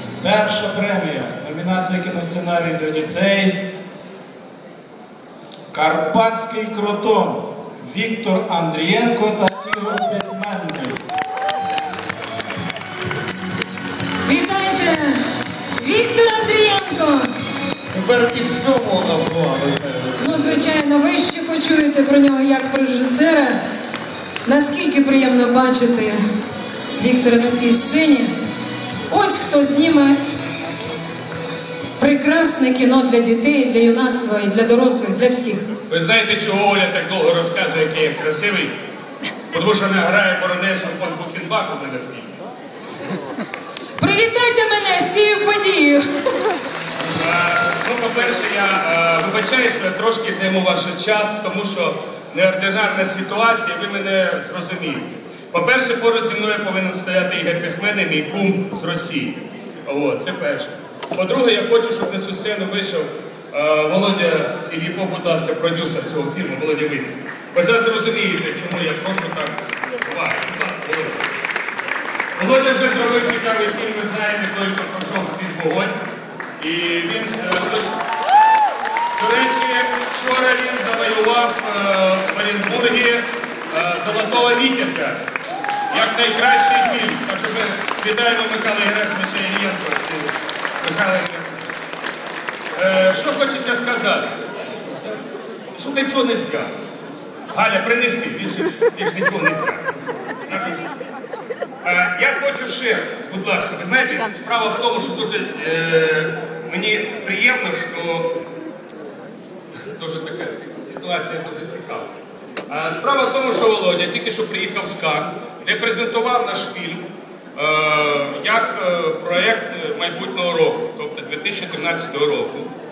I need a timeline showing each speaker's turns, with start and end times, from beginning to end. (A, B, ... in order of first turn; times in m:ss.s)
0:00.2-0:03.7 A
0:05.7-0:11.0 A
0:14.2-0:15.2 B
0:15.8-0:17.3 B
0:17.9-0:20.4 C
0:20.1-0:23.6 B
0:24.4-0:26.2 B
0:27.0-0:28.3 B
0:29.1-0:30.2 B
0:32.0-0:35.6 B
0:35.9-0:38.7 D
0:39.5-0:42.3 D
0:44.0-0:46.0 B
0:47.2-1:11.2 D
1:12.4-1:15.9 D
1:16.6-1:17.9 D
1:19.2-1:25.2 D
1:25.9-1:31.6 D
1:32.7-1:34.4 D
1:35.7-1:36.7 D
1:37.5-1:39.8 D
1:40.5-1:40.8 D
1:41.8-1:48.4 D
1:49.9-1:52.1 D
1:52.7-2:02.7 D